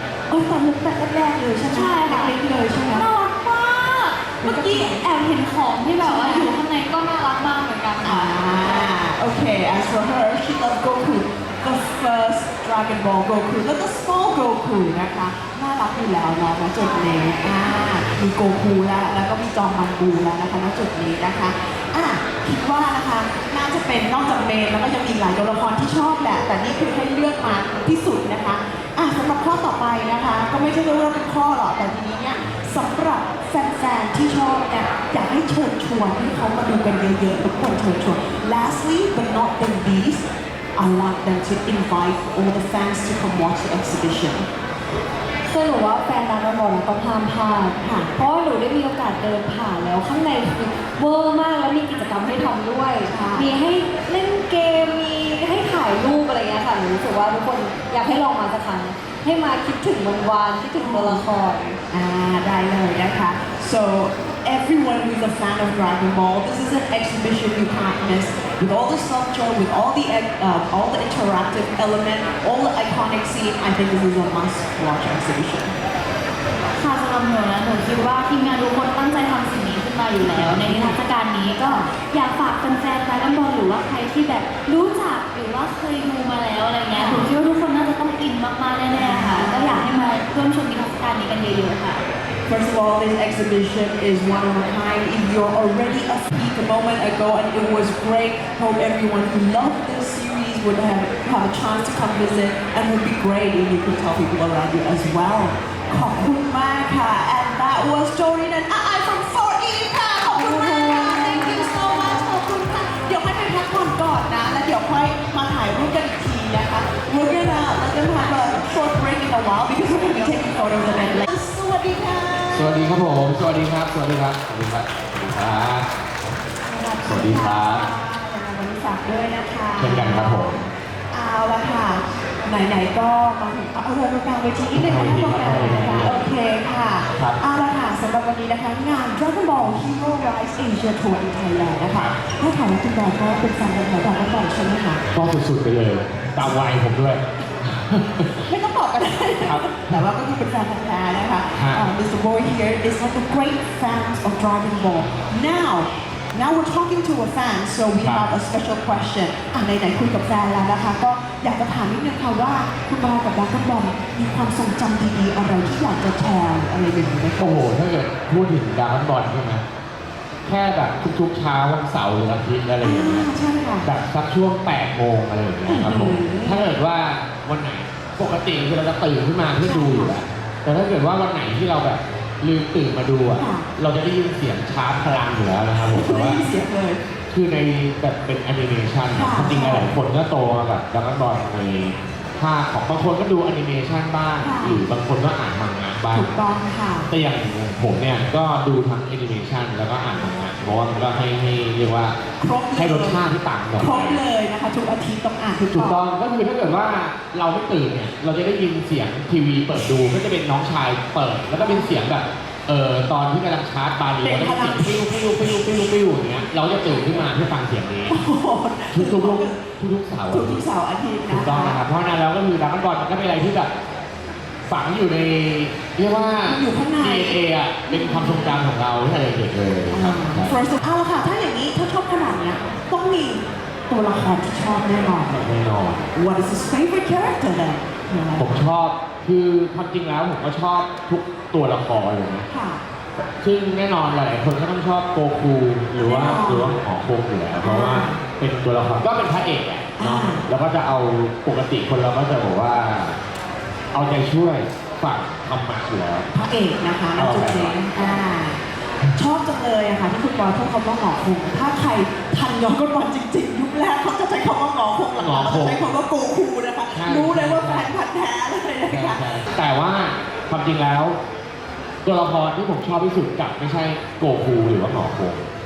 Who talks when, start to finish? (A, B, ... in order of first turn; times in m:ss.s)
0:00.3-0:03.1 A
0:01.7-0:02.4 B
0:02.9-0:08.9 B
0:04.4-0:05.1 A
0:06.0-0:06.6 A
0:08.0-0:44.5 A
0:16.8-0:17.3 B
0:45.5-1:01.8 C
0:47.8-0:48.1 A
0:53.0-0:53.5 A
1:00.8-1:01.2 A
1:01.9-1:15.8 A
1:16.8-1:32.0 B
1:20.3-1:20.7 D
1:20.5-1:21.0 A
1:21.6-1:21.9 A
1:26.9-1:27.3 A
1:29.0-1:29.9 A
1:32.5-2:02.8 A
1:50.3-1:52.3 C
2:02.5-2:05.9 D
2:06.7-2:25.0 A
2:07.0-2:07.9 D
2:09.8-2:10.6 D
2:14.7-2:16.3 D
2:17.1-2:17.4 D
2:25.1-2:28.5 D
2:28.4-2:47.6 A
2:29.4-2:30.0 D
2:31.5-2:31.8 D
2:38.0-2:38.3 D
2:47.4-2:49.6 D
2:50.4-2:53.3 D
2:52.8-2:53.9 A
2:53.8-3:06.4 D
2:55.6-2:56.7 A
2:59.6-3:00.1 A
3:03.4-3:03.7 A
3:05.8-3:07.0 A
3:07.3-3:16.3 D
3:09.1-3:09.9 A
3:14.4-3:14.8 A
3:16.1-3:17.1 A
3:17.1-3:22.2 D
3:22.4-3:26.0 A
3:22.7-3:24.2 D
3:25.6-3:38.2 D
3:31.6-3:31.9 A
3:34.2-3:35.8 A
3:38.1-3:39.7 A
3:38.9-3:40.7 D
3:40.3-3:41.8 A
3:41.3-3:43.7 D
3:44.7-3:50.6 D
3:46.4-3:48.6 A
3:49.9-3:55.4 A
3:55.4-3:56.1 D
3:56.2-3:58.6 A
3:58.4-4:02.5 D
4:02.5-4:02.8 A
4:03.2-4:13.2 D
4:06.0-4:06.8 A
4:07.6-4:08.2 A
4:10.0-4:10.4 A
4:13.9-4:16.3 D
4:16.3-4:18.6 A
4:17.2-4:17.9 D
4:19.1-4:29.4 A
4:25.2-4:25.8 D
4:26.9-4:27.9 D
4:28.9-4:31.2 D
4:32.0-4:35.5 D